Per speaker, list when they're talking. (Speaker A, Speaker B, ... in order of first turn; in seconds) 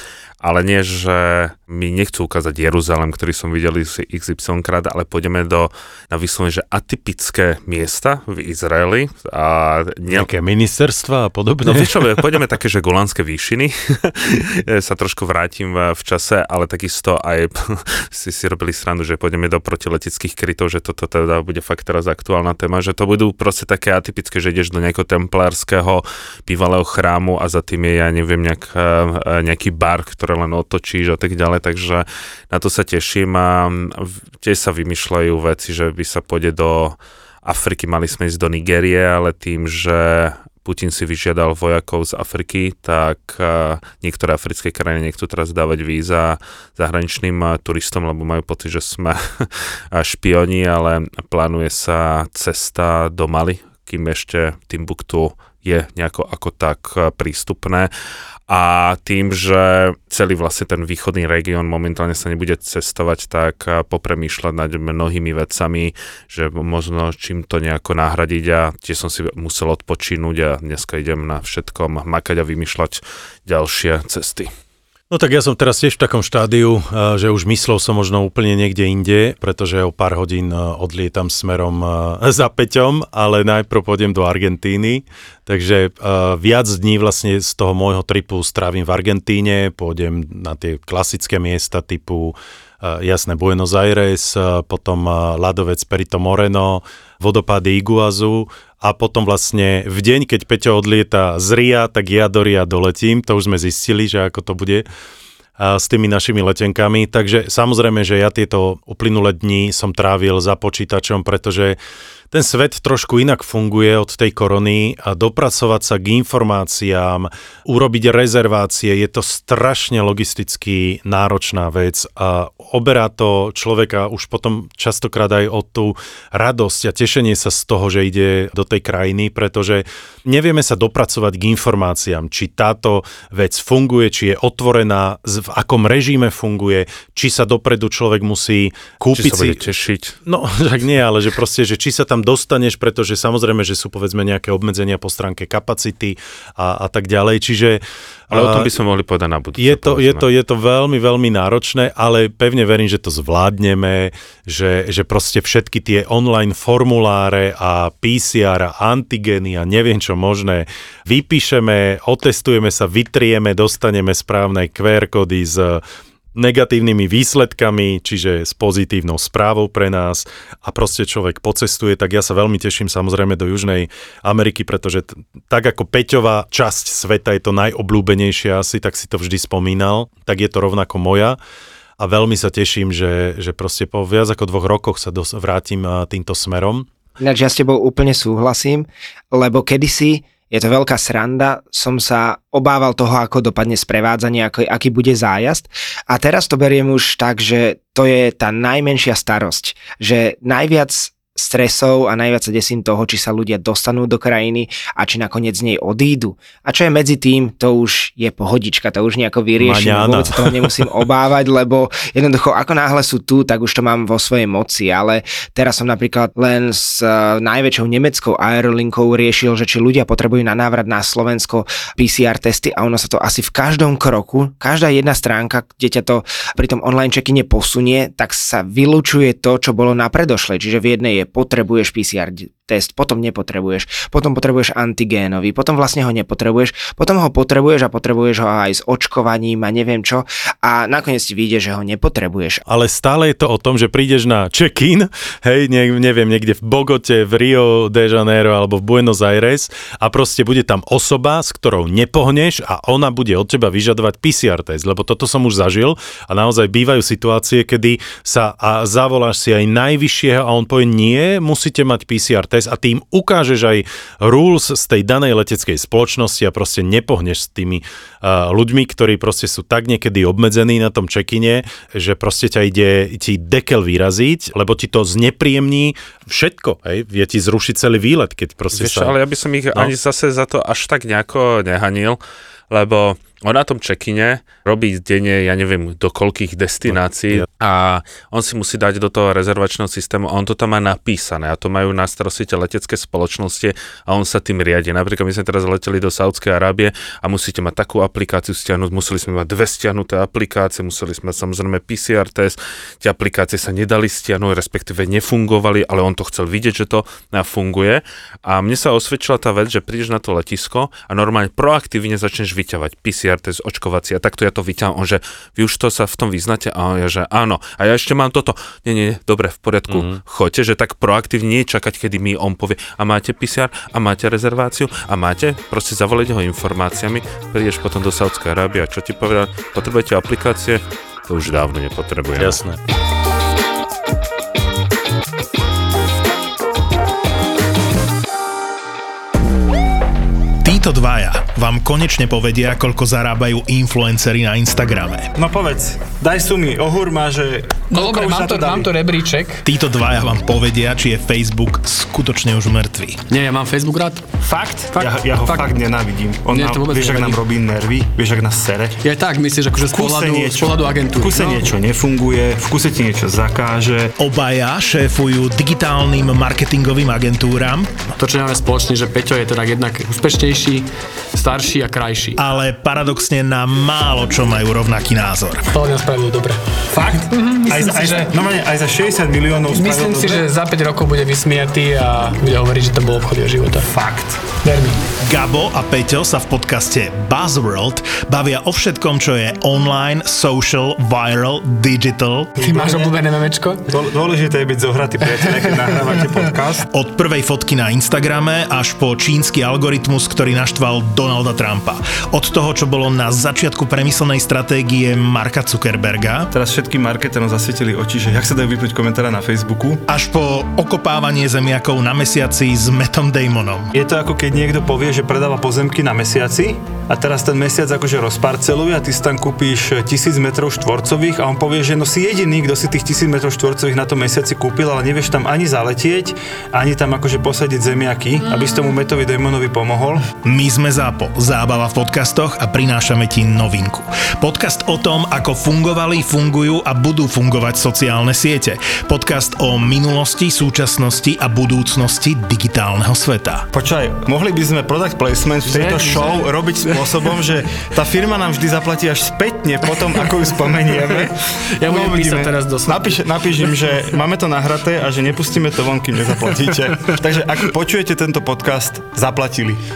Speaker A: 0.4-10.3, 11.6-57.9, 58.5-74.5, 139.1-140.2, 148.3-150.3, 278.7-332.6
Speaker B: 10.1-12.1, 75.1-104.8, 105.6-111.8, 112.3-139.6, 140.2-148.7, 149.6-165.8, 166.3-181.4, 182.0-186.9, 209.6-210.9, 242.7-279.2, 286.9-287.4, 319.9-320.2, 332.4-332.8
Speaker C: 187.2-242.6
Speaker D: 340.6-345.3, 349.6-353.2, 364.2-368.1, 372.4-375.7, 385.2-392.5, 396.9-406.5, 410.1-413.9, 430.4-443.7
Speaker E: 345.4-348.9, 354.4-359.0, 359.9-364.1, 376.9-380.4, 383.8-384.5, 392.6-393.2, 393.9-396.8, 406.5-410.0, 413.9-430.3, 443.7-459.8
Speaker F: 347.9-349.6, 353.3-355.8, 356.5-357.4, 359.0-361.6, 368.2-372.4, 375.7-378.3, 379.7-383.9, 384.6-385.0, 392.6-393.8, 395.3-396.5, 445.7-447.4, 450.1-453.8, 456.5-457.2